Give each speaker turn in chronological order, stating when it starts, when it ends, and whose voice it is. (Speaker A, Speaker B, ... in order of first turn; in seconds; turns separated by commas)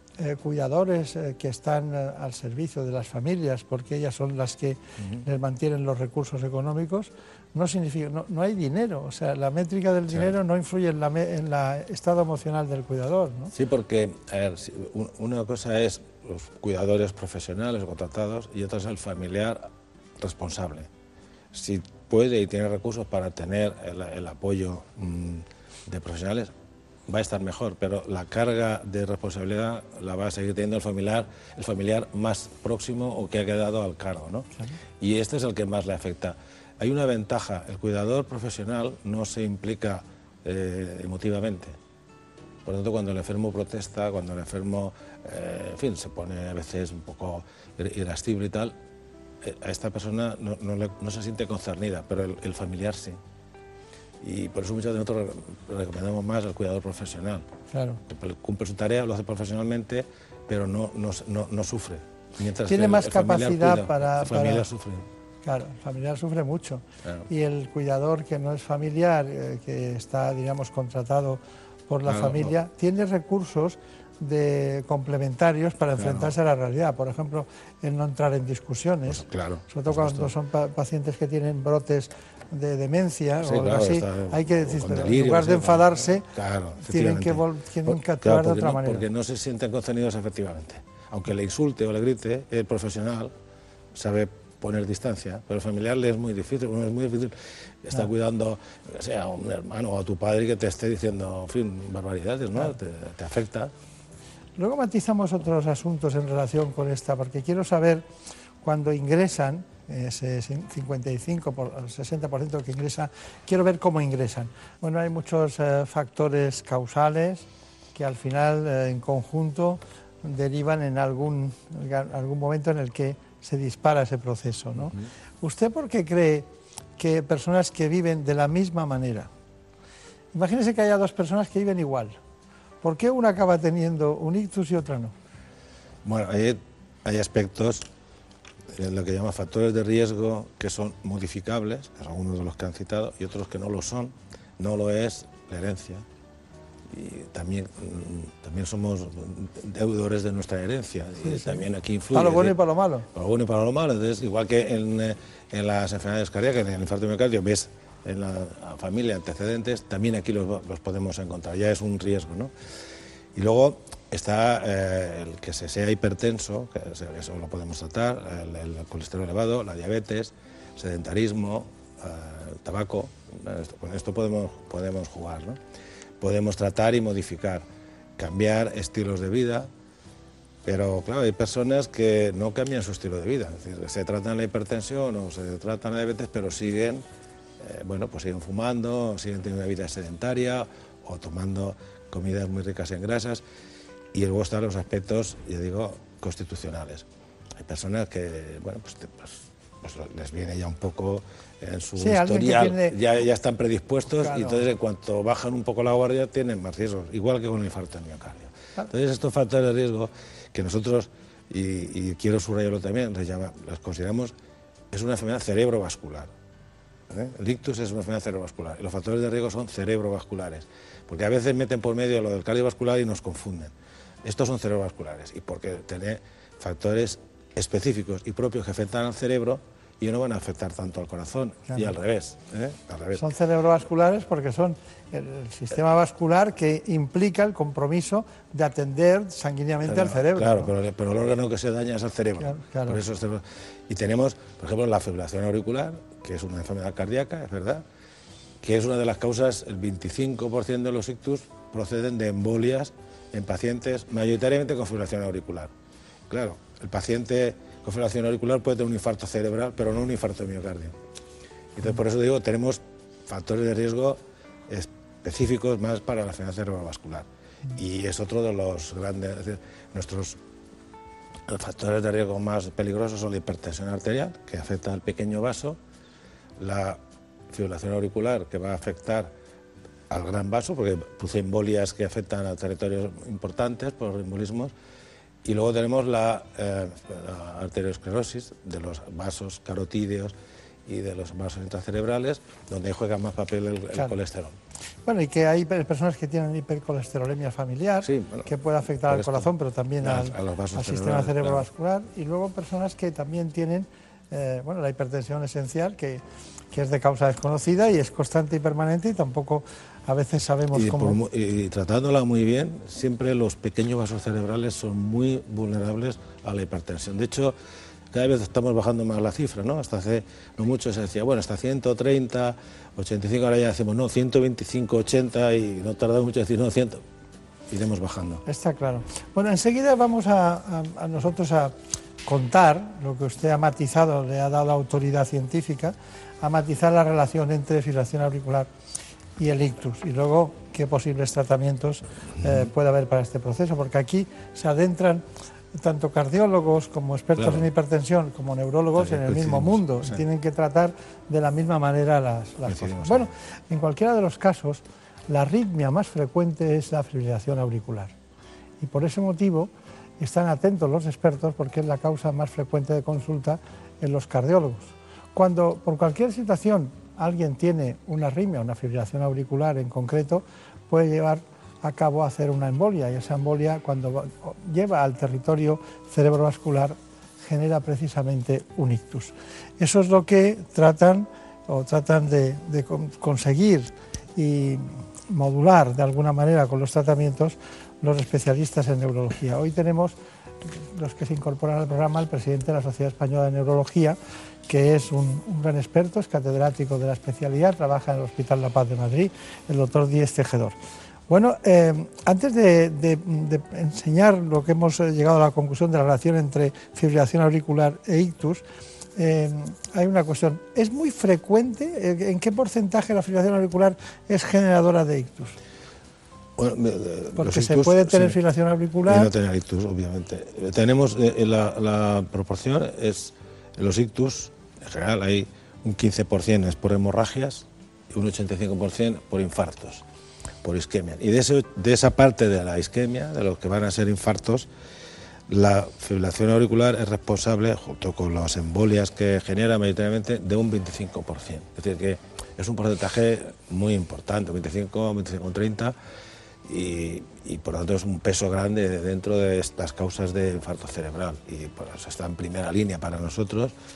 Speaker A: 0.2-13.5, Speaker B: 5.0-5.2, Speaker B: 13.5-19.7, Speaker B: 20.2-20.9, Speaker B: 21.5-26.5, Speaker B: 27.1-34.5, Speaker B: 35.0-41.8, Speaker B: 42.6-48.8, Speaker B: 49.4-53.2, Speaker B: 54.2-57.5, Speaker A: 57.7-58.0, Speaker B: 58.1-65.0, Speaker A: 62.7-64.7, Speaker A: 65.4-86.3, Speaker B: 72.0-72.5, Speaker B: 76.0-76.4, Speaker B: 79.1-80.3, Speaker B: 83.4-93.3, Speaker A: 86.8-89.0, Speaker B: 94.0-103.7, Speaker A: 104.6-108.0, Speaker A: 108.6-129.3, Speaker B: 124.8-125.0, Speaker A: 130.3-132.2, Speaker A: 132.8-135.1, Speaker B: 136.1-137.9, Speaker B: 138.8-146.0, Speaker B: 146.9-152.6, Speaker A: 151.2-153.1, Speaker B: 153.1-162.5, Speaker B: 163.3-175.6, Speaker B: 176.2-177.7, Speaker B: 178.2-179.7, Speaker B: 180.7-187.0, Speaker B: 187.6-193.4, Speaker B: 194.1-197.1, Speaker B: 197.6-214.3, Speaker A: 202.0-203.0, Speaker A: 204.1-204.7, Speaker B: 214.9-216.3, Speaker B: 217.1-223.7, Speaker B: 224.2-233.2, Speaker A: 231.7-231.9, Speaker A: 233.2-240.7, Speaker B: 239.8-247.8, Speaker A: 242.4-243.0, Speaker B: 248.6-255.7, Speaker B: 256.3-260.9, Speaker B: 261.8-270.4, Speaker B: 271.5-275.8, Speaker B: 276.6-277.0, Speaker B: 277.5-279.3, Speaker B: 280.1-284.7, Speaker B: 285.4-290.3, Speaker B: 290.9-294.6, Speaker A: 295.1-311.2, Speaker B: 298.0-298.5, Speaker B: 299.1-301.7, Speaker B: 310.7-317.6, Speaker B: 318.1-327.0, Speaker B: 327.7-328.4, Speaker A: 328.5-338.7, Speaker A: 339.4-358.1, Speaker B: 342.4-342.7, Speaker B: 347.4-347.7, Speaker B: 349.0-350.2, Speaker B: 352.6-353.3, Speaker A: 358.8-390.2, Speaker A: 390.7-394.2, Speaker A: 394.7-400.8, Speaker A: 401.3-408.6, Speaker A: 409.2-415.6, Speaker B: 416.6-418.4, Speaker A: 417.4-419.3, Speaker B: 419.1-430.0, Speaker B: 430.6-434.7, Speaker B: 435.5-445.9, Speaker B: 446.7-453.7